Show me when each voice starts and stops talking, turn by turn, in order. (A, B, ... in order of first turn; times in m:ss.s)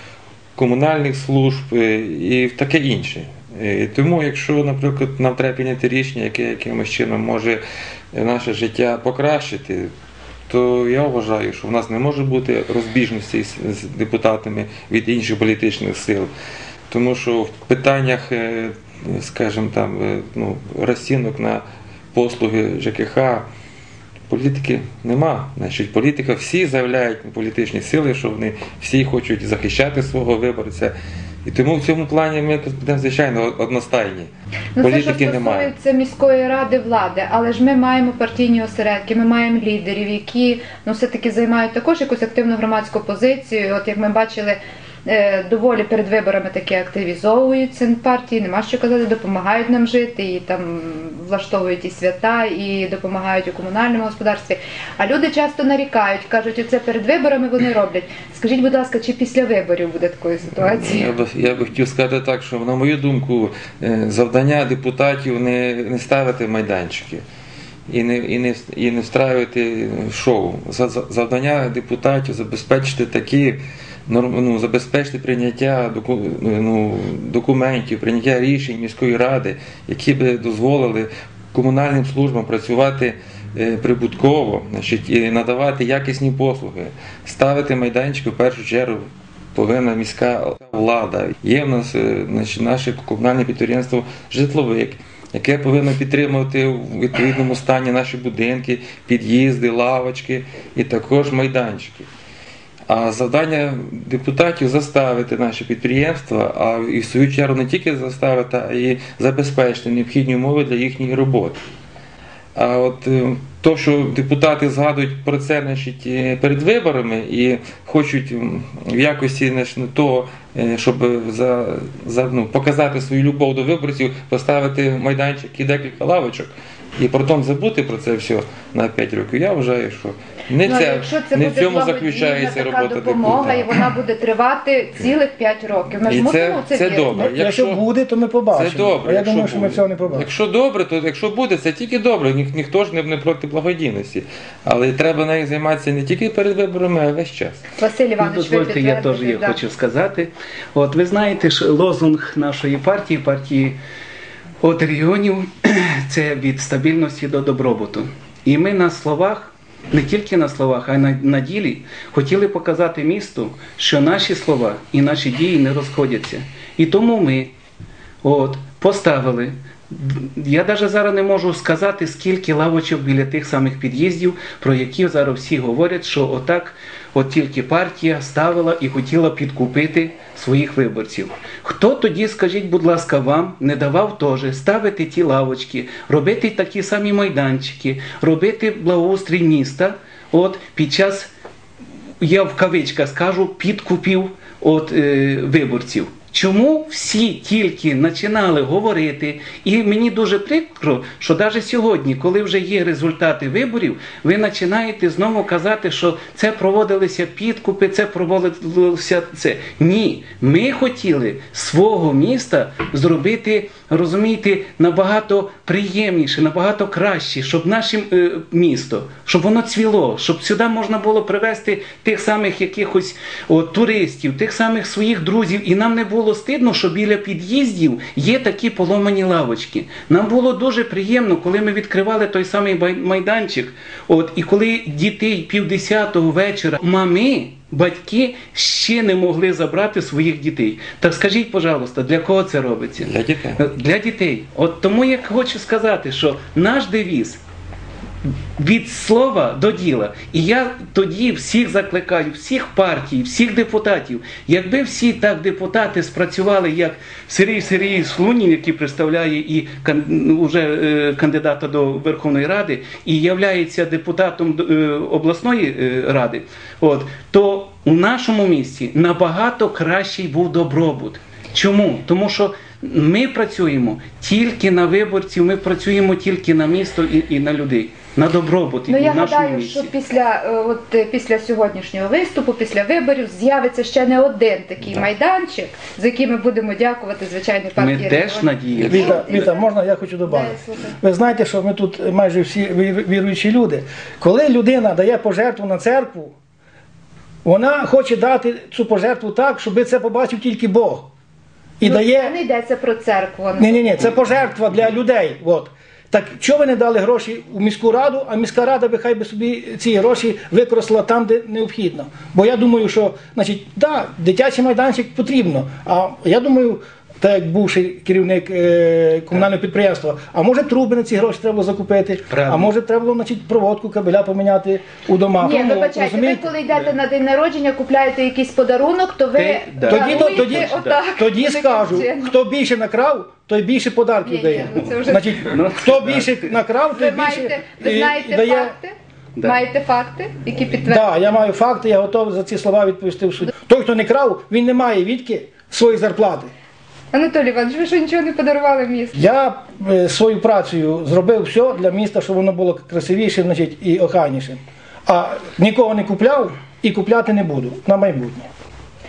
0:00.6-0:07.6 A
0:08.1-0:09.9 A
0:10.5-0:16.3 A
0:16.9-0:21.6 A
0:22.1-0:23.5 A
0:24.3-0:30.9 A
0:31.4-0:35.7 A
0:34.8-1:01.1 B
1:00.6-1:07.2 A
1:07.9-1:29.0 A
1:29.5-1:42.1 A
1:42.9-1:51.6 A
1:52.5-2:13.7 A
2:10.6-2:17.1 B
2:16.0-2:17.8 A
2:17.1-2:20.3 C
2:18.5-2:27.6 A
2:27.8-2:29.6 B
2:28.2-2:33.8 D
2:34.6-2:47.5 D
2:48.2-3:11.3 D
3:12.2-4:07.4 D
4:03.0-4:03.6 A
4:08.6-4:39.9 D
4:38.9-4:49.7 B
4:47.8-4:49.1 D
4:48.8-4:49.2 A
4:48.8-4:56.3 C
4:50.2-4:51.0 B
4:57.4-5:01.1 C
5:01.8-5:02.4 C
5:01.8-5:04.1 B
5:03.6-5:26.5 C
5:22.3-5:22.7 D
5:25.4-5:32.3 B
5:29.3-5:31.0 D
5:29.8-5:38.7 C
5:34.2-5:35.4 B
5:35.4-5:36.5 D
5:36.9-5:41.1 B
5:40.8-5:46.5 C
5:47.1-5:49.2 B
5:49.1-5:58.5 C